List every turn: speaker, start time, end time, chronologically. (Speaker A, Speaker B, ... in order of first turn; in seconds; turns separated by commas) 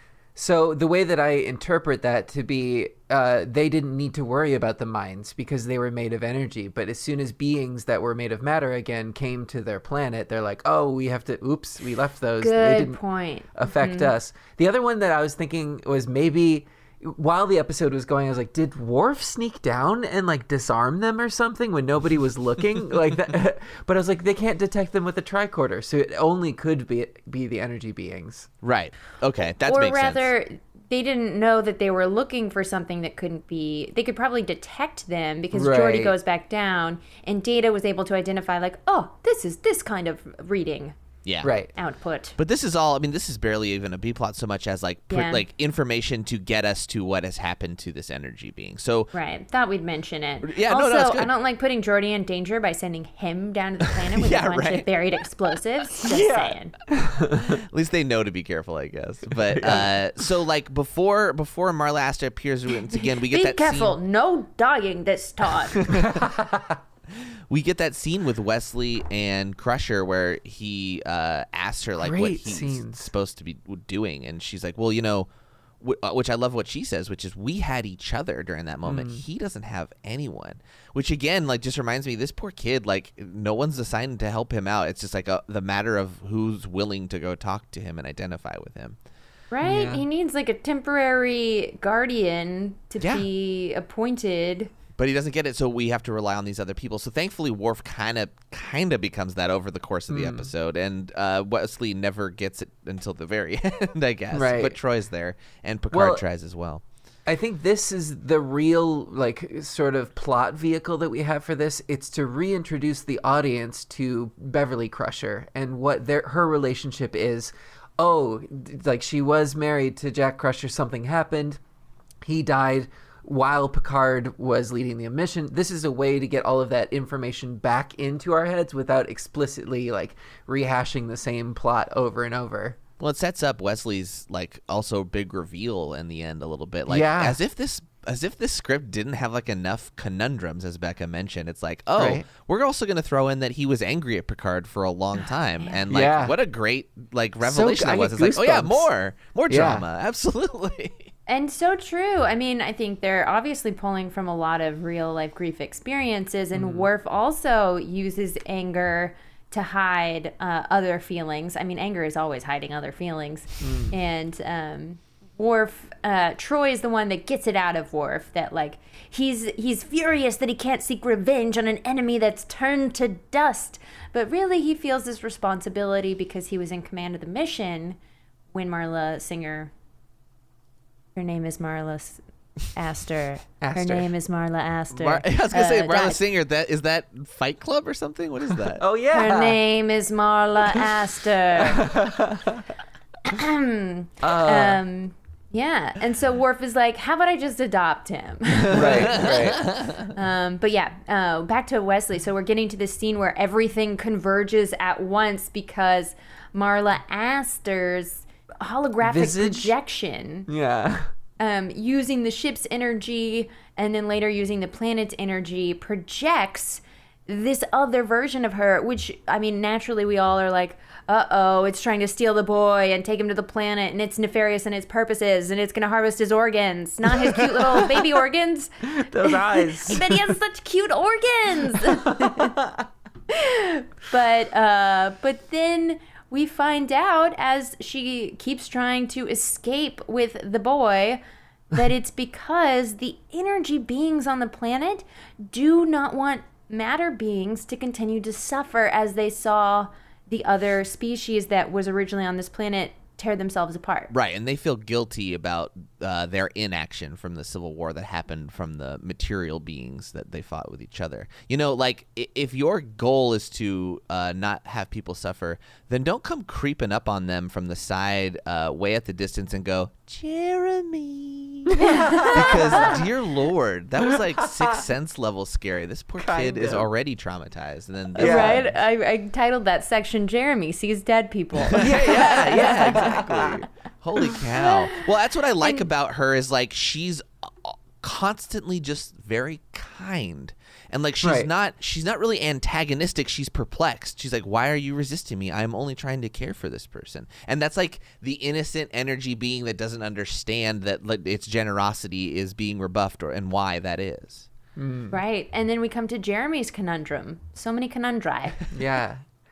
Speaker A: 0.4-13.0, Speaker B: 12.4-14.1, Speaker A: 13.5-28.5, Speaker C: 28.6-30.3, Speaker B: 29.6-41.0, Speaker A: 35.5-36.1, Speaker C: 41.2-41.5, Speaker A: 41.4-41.7, Speaker B: 41.8-42.4, Speaker C: 42.4-49.1, Speaker B: 45.1-45.4, Speaker B: 49.1-56.7, Speaker C: 50.4-51.3, Speaker C: 54.1-54.9, Speaker A: 56.1-57.6, Speaker C: 57.4-64.0, Speaker A: 59.5-60.0, Speaker B: 63.2-66.0, Speaker A: 65.8-66.8, Speaker C: 67.2-75.3, Speaker A: 72.0-73.1, Speaker C: 75.8-89.0, Speaker A: 78.8-79.2, Speaker B: 89.5-94.7, Speaker A: 89.6-90.0, Speaker C: 93.0-93.3, Speaker C: 95.0-106.8, Speaker A: 100.1-100.5, Speaker A: 104.3-104.8, Speaker A: 105.9-106.2, Speaker A: 107.3-121.6, Speaker A: 122.2-132.8, Speaker C: 133.0-151.1, Speaker A: 136.9-137.4, Speaker A: 142.0-142.3, Speaker B: 145.6-145.9, Speaker A: 145.9-146.3, Speaker A: 147.4-148.9, Speaker A: 149.5-149.8, Speaker B: 151.3-178.0, Speaker A: 156.5-156.9, Speaker A: 163.6-163.9, Speaker B: 178.5-179.7, Speaker B: 181.2-186.2, Speaker A: 183.6-184.1, Speaker C: 184.9-188.8, Speaker A: 188.7-189.6, Speaker B: 189.1-192.0, Speaker A: 191.6-192.6, Speaker B: 193.2-210.5, Speaker A: 194.2-194.8, Speaker C: 198.7-200.1, Speaker A: 198.7-199.7, Speaker A: 209.0-209.8, Speaker A: 210.5-211.1, Speaker B: 211.4-232.6, Speaker A: 227.2-228.1, Speaker A: 228.9-230.3, Speaker A: 231.7-232.8, Speaker B: 233.3-254.1, Speaker C: 254.1-271.7, Speaker A: 271.7-273.1, Speaker B: 271.8-272.9, Speaker C: 272.3-278.7, Speaker A: 274.0-274.8, Speaker A: 276.2-276.9, Speaker A: 278.2-278.6, Speaker B: 278.2-283.6, Speaker C: 281.6-304.5, Speaker A: 281.8-283.7, Speaker B: 284.4-285.1, Speaker B: 285.6-285.9, Speaker A: 291.2-291.5, Speaker A: 304.8-305.2, Speaker B: 305.1-308.6, Speaker A: 308.7-309.2